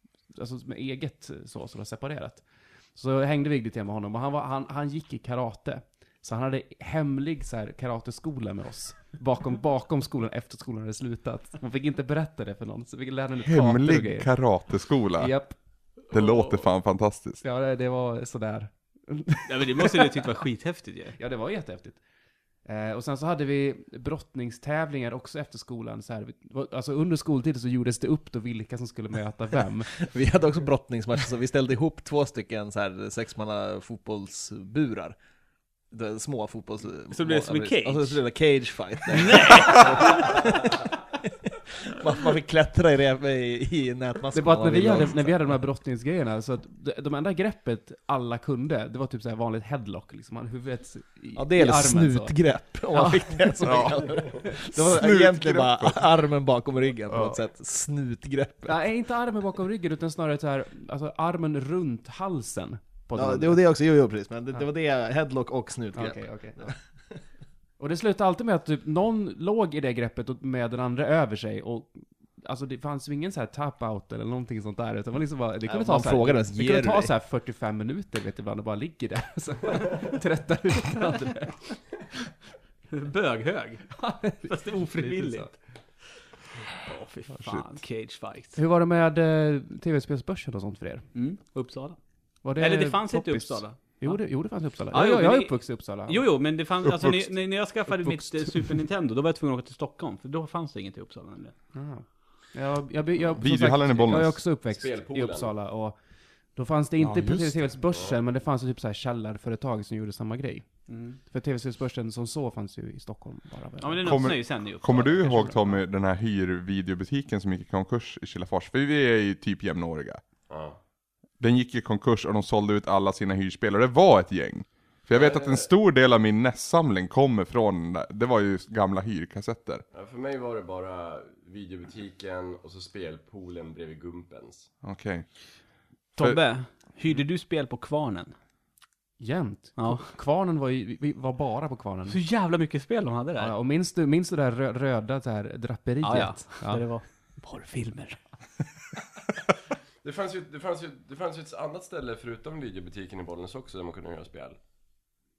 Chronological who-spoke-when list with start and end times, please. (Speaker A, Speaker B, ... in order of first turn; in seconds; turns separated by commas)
Speaker A: 0.3-14.3, Speaker B: 13.4-15.3, Speaker A: 15.2-15.6, Speaker C: 16.1-16.6, Speaker B: 16.1-17.4, Speaker A: 17.4-20.2, Speaker C: 19.5-21.2, Speaker A: 21.2-22.0, Speaker A: 22.6-29.9, Speaker D: 29.9-35.2, Speaker D: 35.9-45.6, Speaker C: 37.1-38.2, Speaker C: 39.1-40.4, Speaker A: 44.3-54.6, Speaker D: 51.4-58.9, Speaker B: 53.6-56.1, Speaker B: 57.1-57.4, Speaker A: 58.7-63.6, Speaker D: 63.2-66.7, Speaker A: 65.9-66.7, Speaker A: 67.8-81.8, Speaker D: 75.6-77.1, Speaker C: 82.9-85.6, Speaker A: 84.0-85.6, Speaker C: 86.8-88.6, Speaker A: 88.6-91.1, Speaker C: 91.1-92.0, Speaker A: 92.4-96.3, Speaker C: 92.6-101.5, Speaker B: 96.9-97.3, Speaker A: 97.9-98.7, Speaker A: 101.7-106.0, Speaker B: 103.4-104.4, Speaker E: 104.7-105.5, Speaker A: 106.5-110.7, Speaker B: 107.0-107.6, Speaker C: 110.9-111.2, Speaker A: 111.2-114.4, Speaker C: 113.8-115.7, Speaker B: 114.0-120.2, Speaker E: 120.5-120.8, Speaker B: 121.4-129.8, Speaker E: 125.1-125.7, Speaker E: 129.9-134.7, Speaker B: 134.8-135.3, Speaker C: 136.2-138.3, Speaker A: 139.2-142.2, Speaker C: 139.8-140.1, Speaker C: 142.1-143.6, Speaker A: 143.4-146.9, Speaker C: 146.0-148.2, Speaker E: 150.0-154.6